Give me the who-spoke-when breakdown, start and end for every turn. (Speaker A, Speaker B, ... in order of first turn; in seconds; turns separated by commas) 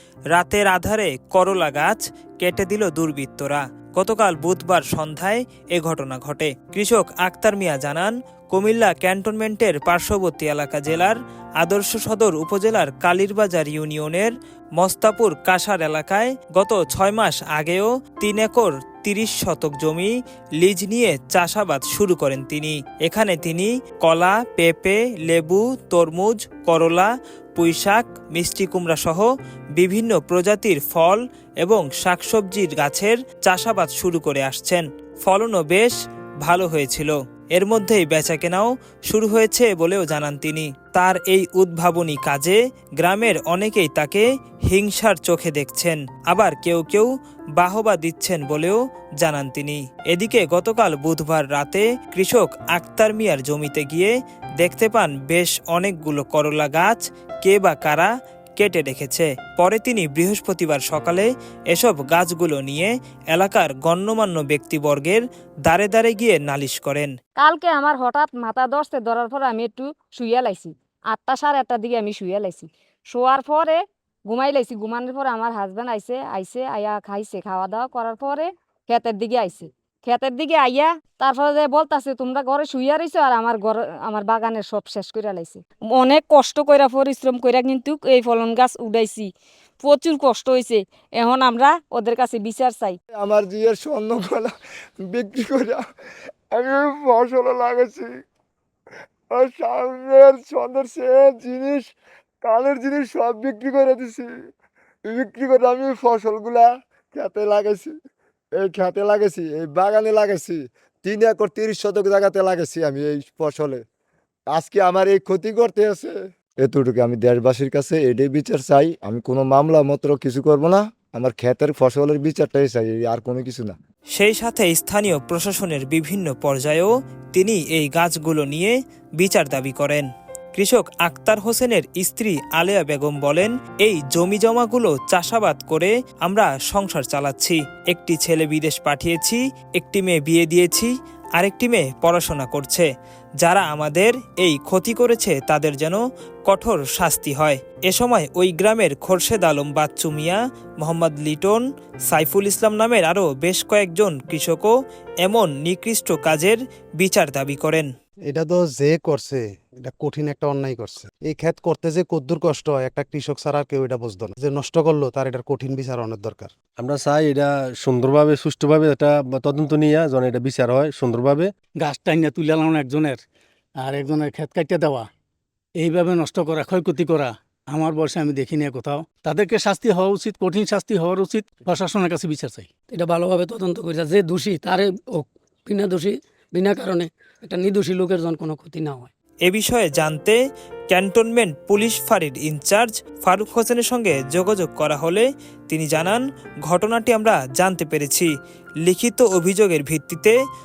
Speaker A: 0.3-67.1, Speaker B: 67.4-93.0, Speaker C: 93.2-94.5, Speaker C: 95.0-95.8, Speaker C: 96.5-98.1, Speaker C: 99.3-101.9, Speaker C: 102.4-104.3, Speaker C: 105.1-107.9, Speaker C: 108.6-113.8, Speaker C: 114.5-123.8, Speaker A: 124.2-142.9, Speaker A: 143.4-157.9, Speaker D: 158.3-166.5, Speaker E: 166.8-171.5, Speaker F: 171.8-173.2, Speaker F: 173.8-175.1, Speaker F: 175.8-182.7, Speaker G: 182.8-189.1, Speaker A: 189.4-190.4, Speaker A: 190.9-198.3, Speaker A: 198.8-200.3